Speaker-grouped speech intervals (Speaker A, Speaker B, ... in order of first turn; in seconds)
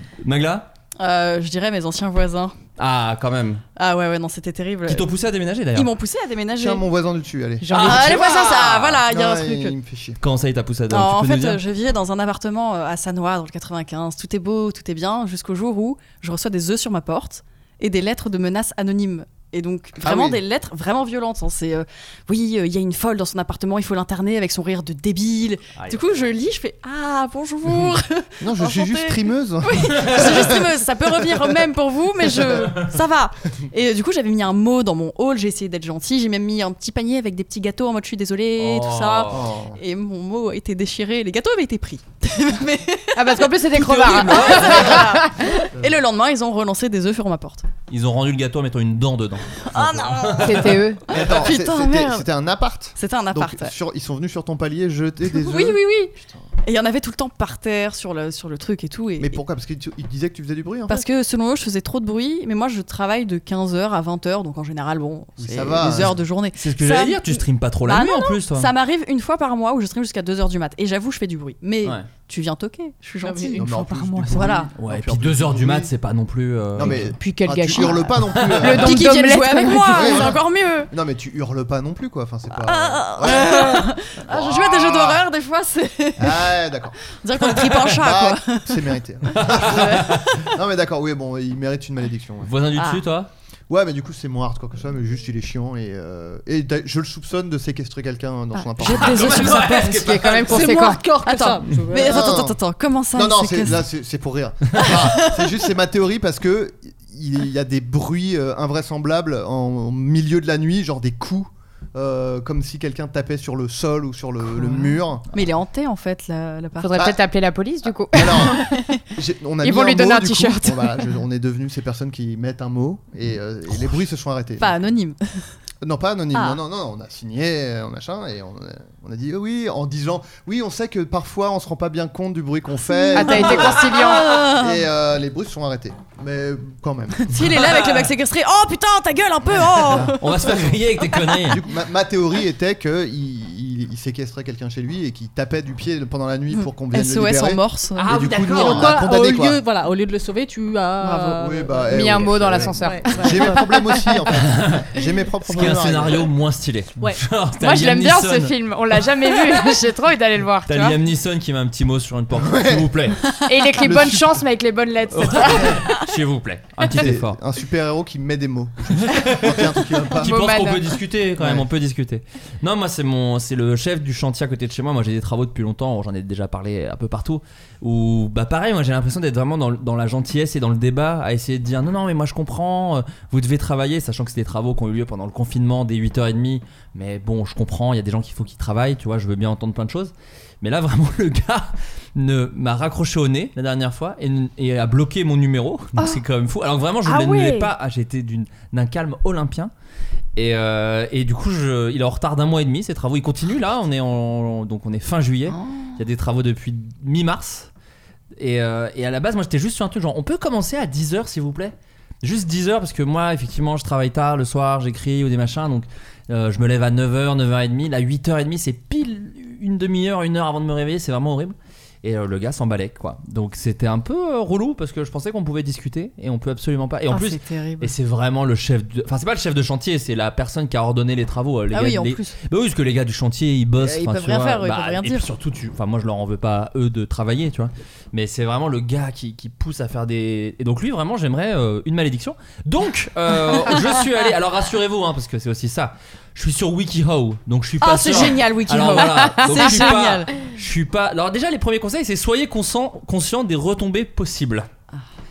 Speaker A: 0.2-0.7, 2.8-3.6, 4.9-5.9, 7.7-9.0, 10.2-11.6, 25.8-26.0, 30.0-30.5, 32.6-32.9, 38.5-39.4, 43.8-45.2, 47.9-50.8, 66.6-68.7, 74.8-77.2, 89.4-90.4, 92.4-93.3, 98.8-100.7, 137.5-138.1, 140.2-141.6, 148.0-149.0, 154.4-154.9, 155.5-158.5, 160.7-163.2, 165.1-167.4, 168.9-199.7, 200.4-207.7, 208.4-254.7
Speaker B: 1.0-2.6, 3.8-5.1, 5.7-6.8, 7.6-9.8, 10.9-43.5, 44.0-47.7, 49.6-52.3, 53.0-53.7, 55.3-59.4, 60.9-73.7, 74.3-74.7, 78.6-80.9, 82.5-86.6, 87.2-88.8, 89.4-90.0, 92.8-93.0, 99.2-99.6, 101.2-103.8, 104.8-105.6, 114.6-117.0, 124.6-125.5, 126.3-126.6, 132.9-134.8, 137.2-141.5, 146.5-148.1, 151.0-151.5, 205.5-206.0, 227.1-227.9, 231.7-232.4, 233.8-235.3, 247.8-250.3
Speaker C: 6.6-8.3, 9.1-10.2, 20.0-20.4, 28.4-30.7, 39.3-39.8, 51.1-56.5, 59.2-61.1, 65.4-66.2, 73.6-75.9, 76.8-79.1, 79.9-85.2, 86.2-92.5, 93.7-99.5, 102.0-102.6, 103.1-115.4, 118.1-124.8, 125.8-137.5, 139.4-140.8, 141.4-149.6, 151.4-156.3, 162.4-163.1, 163.8-164.4, 166.9-170.4, 171.4-171.7
Speaker D: 43.1-45.6, 50.4-51.0, 77.0-80.3, 98.8-101.0, 116.8-118.7, 119.6-121.0, 133.1-134.5, 151.9-153.6, 157.6-161.0, 163.5-165.8, 170.2-170.8, 197.1-197.7, 249.0-249.5
Speaker E: 73.2-74.7, 100.5-102.4, 148.2-152.1, 152.7-153.7